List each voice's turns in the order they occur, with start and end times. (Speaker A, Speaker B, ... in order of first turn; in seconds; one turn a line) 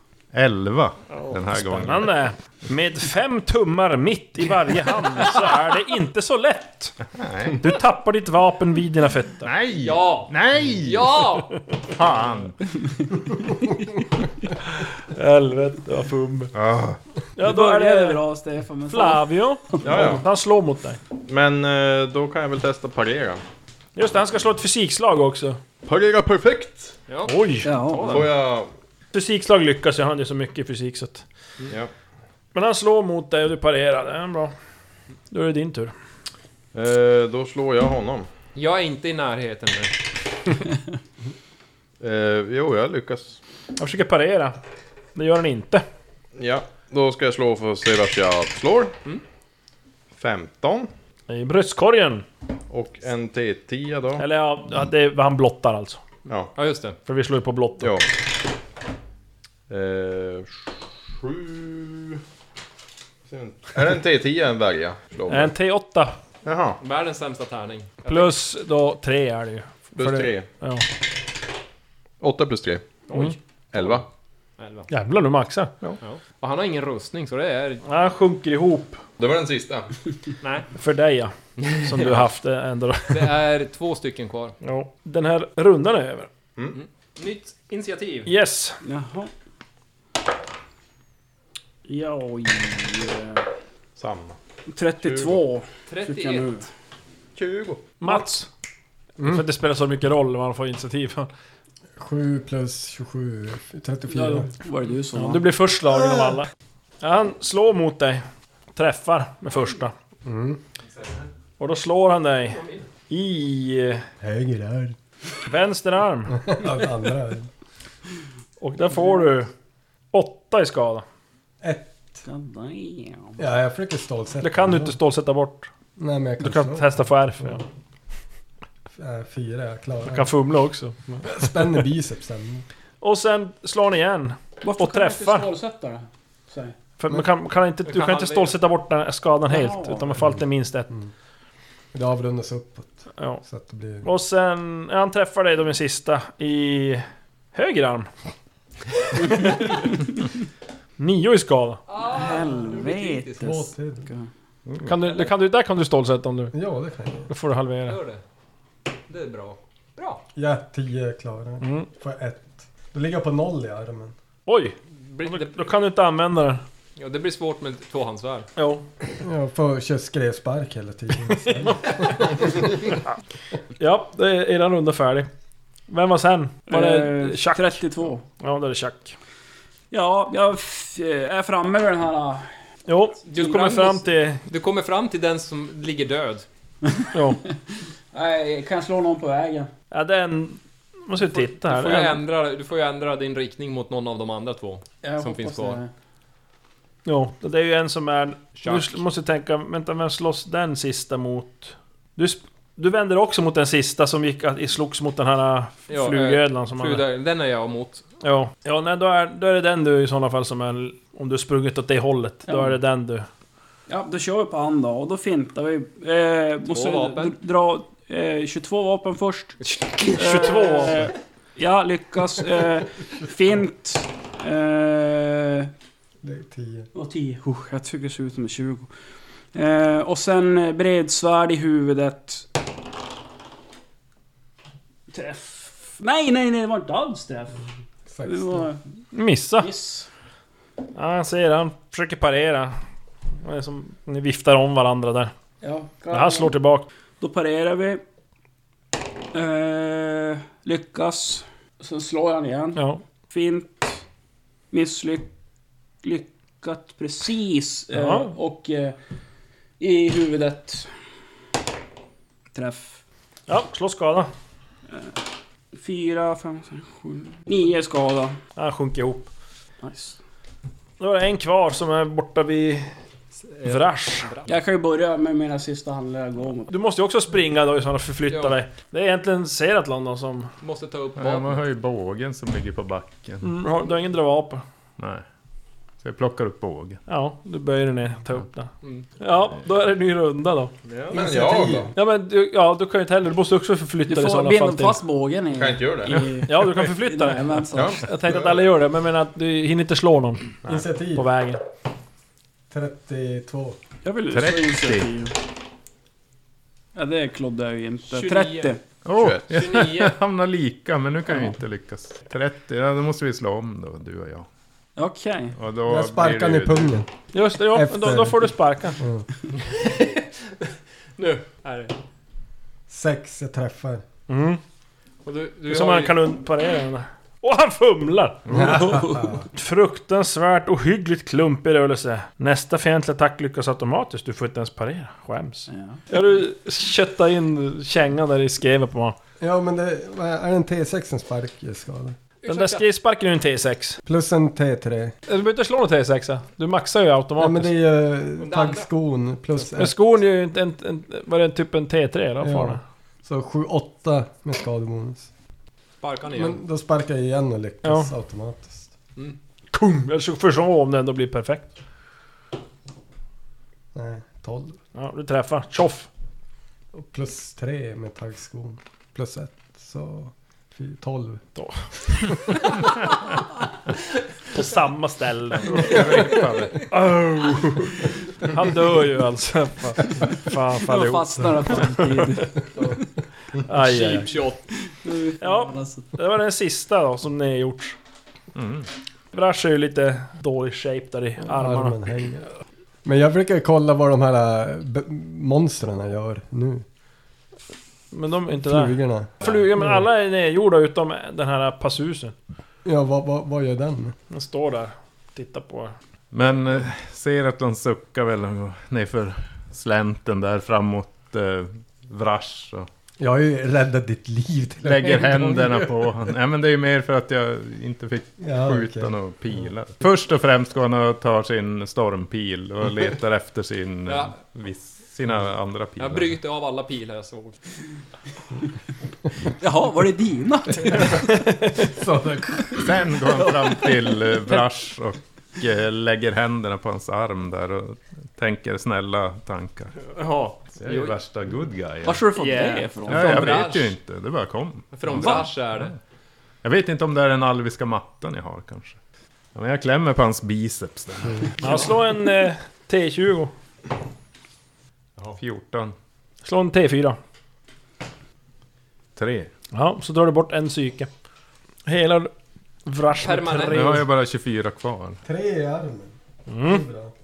Speaker A: 0.3-2.1
Speaker B: 1.5-6.9
Speaker A: 7.2-7.7
Speaker B: 7.5-9.5
Speaker A: 9.4-11.2
Speaker C: 9.8-11.6
Speaker A: 11.9-12.6
Speaker B: 15.0-16.5
Speaker A: 16.5-17.0
Speaker B: 17.3-18.2
Speaker D: 17.4-19.8
Speaker B: 18.9-21.0
Speaker E: 19.8-20.2
Speaker E: 21.2-23.4
Speaker B: 23.9-25.6
Speaker E: 25.9-26.9
Speaker B: 27.2-28.3
Speaker D: 27.6-28.3
Speaker E: 28.0-28.7
Speaker B: 29.1-31.2
Speaker B: 32.5-34.5
Speaker B: 35.3-35.9
Speaker E: 36.7-38.3
Speaker C: 38.5-40.0
Speaker E: 42.0-43.4
Speaker B: 43.8-44.6
Speaker B: 45.1-45.8
Speaker E: 46.4-48.9
Speaker E: 50.2-50.9
Speaker B: 51.3-52.2
Speaker E: 52.7-54.2
Speaker B: 54.2-56.0
Speaker E: 56.2-56.5
Speaker C: 56.5-57.0
Speaker B: 57.0-57.9
Speaker E: 57.8-58.0
Speaker E: 59.7-62.2
Speaker E: 63.3-65.5
Speaker B: 65.3-66.2
Speaker E: 66.4-66.8
Speaker C: 66.8-68.3
Speaker B: 68.0-70.8
Speaker E: 70.0-70.5
Speaker E: 72.2-72.9
Speaker C: 73.1-74.0
Speaker E: 73.7-74.0
Speaker C: 74.6-74.9
Speaker B: 74.9-75.8
Speaker C: 76.0-77.8
Speaker B: 77.8-79.0
Speaker E: 79.2-79.9
Speaker C: 80.4-80.7
Speaker B: 80.8-83.3
Speaker C: 83.1-84.5
Speaker B: 84.6-86.3
Speaker C: 86.7-88.3
Speaker B: 88.2-88.8
Speaker D: 88.8-89.3
Speaker D: 91.8-93.4
Speaker E: 94.0-94.4
Speaker D: 94.7-96.7
Speaker E: 95.0-95.4
Speaker C: 95.9-96.5
Speaker E: 97.3-97.9
Speaker B: 98.0-98.5
Speaker B: 99.2-101.3
Speaker F: 102.0-104.5
Speaker D: 104.1-105.4
Speaker B: 105.1-106.5
Speaker B: 107.0-108.2
Speaker B: 108.8-109.9
Speaker F: 110.2-110.6
Speaker B: 111.6-114.0
Speaker C: 112.5-112.8
Speaker F: 114.2-115.0
Speaker B: 115.4-116.4
Speaker F: 116.3-117.5
Speaker B: 118.6-119.5
Speaker B: 120.1-121.0
Speaker F: 121.6-122.2
Speaker D: 122.2-123.4
Speaker F: 123.4-124.9
Speaker B: 124.4-125.7
Speaker F: 126.0-127.6
Speaker B: 126.4-127.6
Speaker F: 128.9-130.3
Speaker B: 130.1-131.6
Speaker F: 131.2-132.6
Speaker B: 133.0-135.5
Speaker D: 134.6-136.8
Speaker B: 137.0-140.9
Speaker C: 137.9-138.6
Speaker D: 139.5-140.2
Speaker F: 141.9-144.1
Speaker B: 143.2-143.4
Speaker B: 144.0-148.1
Speaker B: 149.1-150.0
Speaker B: 151.0-151.8
Speaker C: 151.9-153.6
Speaker D: 152.0-154.3
Speaker F: 153.4-154.1
Speaker A: 154.7-154.9
Speaker B: 154.8-156.5
Speaker F: 156.5-157.3
Speaker B: 157.3-158.0
Speaker C: 157.9-158.2
Speaker C: 159.1-160.2
Speaker F: 160.3-164.1
Speaker B: 161.6-161.9
Speaker B: 164.5-166.6
Speaker C: 165.1-165.6
Speaker C: 167.0-168.5
Speaker B: 168.6-168.8
Speaker F: 169.2-172.9
Speaker B: 173.8-175.3
Speaker B: 175.9-179.2
Speaker D: 176.7-178.2
Speaker D: 179.9-182.5
Speaker B: 182.9-184.4
Speaker D: 183.3-183.8
Speaker C: 183.3-186.4
Speaker B: 187.1-187.4
Speaker D: 188.1-189.7
Speaker B: 189.9-192.2
Speaker C: 191.3-195.8
Speaker D: 195.0-195.9
Speaker B: 197.1-207.0
Speaker C: 198.5-199.0
Speaker C: 205.9-208.0
Speaker B: 208.2-213.3
Speaker D: 212.5-212.8
Speaker D: 213.9-225.7
Speaker C: 216.7-217.4
Speaker B: 220.0-221.1
Speaker F: 226.2-226.9
Speaker D: 226.9-228.9
Speaker D: 229.5-232.4
Speaker D: 235.1-237.6
Speaker F: 238.1-238.7
Speaker D: 238.2-238.8
Speaker B: 239.1-239.7
Speaker D: 239.6-240.1
Speaker B: 240.9-242.8
Speaker B: 243.4-245.3
Speaker D: 245.6-246.5
Speaker B: 246.1-246.9
Speaker D: 247.2-248.0
Speaker D: 249.3-254.0
Speaker B: 252.8-253.0
Speaker D: 254.7-255.3
Speaker D: 256.0-259.0
Speaker B: 257.9-258.3
Speaker D: 259.8-260.9
Speaker D: 262.5-263.0
Speaker B: 263.5-264.3
Speaker D: 264.9-265.2
Speaker D: 265.7-268.4
Speaker B: 268.6-269.3
Speaker D: 269.8-270.2
Speaker B: 271.0-272.9
Speaker C: 273.4-274.5
Speaker B: 273.6-274.3
Speaker D: 274.4-276.7
Speaker B: 276.7-280.5
Speaker C: 278.3-278.6
Speaker C: 280.6-281.6
Speaker A: 281.2-283.5
Speaker B: 283.4-284.6
Speaker A: 285.0-285.2
Speaker A: 286.0-287.0
Speaker B: 287.1-290.7
Speaker C: 290.9-291.2
Speaker E: 291.1-291.9
Speaker F: 291.1-291.9
Speaker B: 291.9-295.0
Speaker D: 294.1-298.0
Speaker E: 295.5-296.4
Speaker B: 296.4-300.5
Speaker E: 297.7-298.0
Speaker F: 300.6-301.2
Speaker B: 301.1-301.6
Speaker F: 302.7-303.8
Speaker D: 304.0-305.3
Speaker A: 304.3-305.1
Speaker D: 306.9-308.8
Speaker C: 308.1-308.7
Speaker A: 309.0-314.5
Speaker E: 309.2-309.5
Speaker C: 309.5-310.1
Speaker D: 314.9-315.6
Speaker A: 315.5-317.0
Speaker F: 315.9-317.1
Speaker B: 317.3-319.0
Speaker F: 317.6-319.3
Speaker C: 319.5-321.9
Speaker F: 322.9-324.0
Speaker B: 324.3-324.6
Speaker C: 325.2-326.2
Speaker B: 325.7-339.2
Speaker A: 328.4-328.9
Speaker F: 328.5-329.4
Speaker D: 335.7-336.0
Speaker F: 339.4-342.1
Speaker C: 342.4-342.9
Speaker B: 342.4-344.0
Speaker F: 344.0-345.1
Speaker B: 345.3-347.7
Speaker F: 347.4-350.0
Speaker C: 348.4-348.9
Speaker B: 349.6-352.8
Speaker F: 352.4-355.3
Speaker C: 356.0-356.6
Speaker F: 356.3-358.9
Speaker B: 357.8-358.1
Speaker B: 359.7-361.7
Speaker F: 363.9-364.8
Speaker B: 364.9-366.1
Speaker F: 366.9-371.4
Speaker B: 371.6-372.8
Speaker B: 374.5-382.5
Speaker A: 375.6-376.9
Speaker D: 380.8-382.9
Speaker B: 383.6-384.3
Speaker D: 383.8-386.1
Speaker C: 383.9-384.6
Speaker B: 385.4-387.9
Speaker A: 388.5-388.9
Speaker B: 389.3-392.0
Speaker F: 391.4-392.5
Speaker F: 393.0-396.8
Speaker B: 398.1-402.3
Speaker F: 398.6-400.0
Speaker F: 402.8-404.1
Speaker B: 404.3-405.9
Speaker A: 406.3-412.9
Speaker F: 413.2-416.3
Speaker A: 414.8-426.4
Speaker F: 418.4-419.1
Speaker C: 424.1-424.4
Speaker C: 426.0-427.6
Speaker D: 429.6-431.4
Speaker F: 430.9-433.5
Speaker B: 431.3-431.7
Speaker A: 432.7-439.9
Speaker C: 440.1-441.1
Speaker A: 440.8-442.2
Speaker D: 442.0-443.7
Speaker C: 442.3-443.9
Speaker A: 443.1-445.9
Speaker C: 444.9-446.0
Speaker A: 446.6-449.0
Speaker A: 449.5-451.8
Speaker B: 451.6-453.5
Speaker A: 455.3-455.9
Speaker B: 456.4-457.2
Speaker A: 459.1-459.5
Speaker B: 459.7-461.1
Speaker B: 461.9-462.3
Speaker B: 462.9-464.0
Speaker C: 463.2-464.0
Speaker A: 463.7-465.2
Speaker F: 465.2-467.1
Speaker B: 466.5-466.8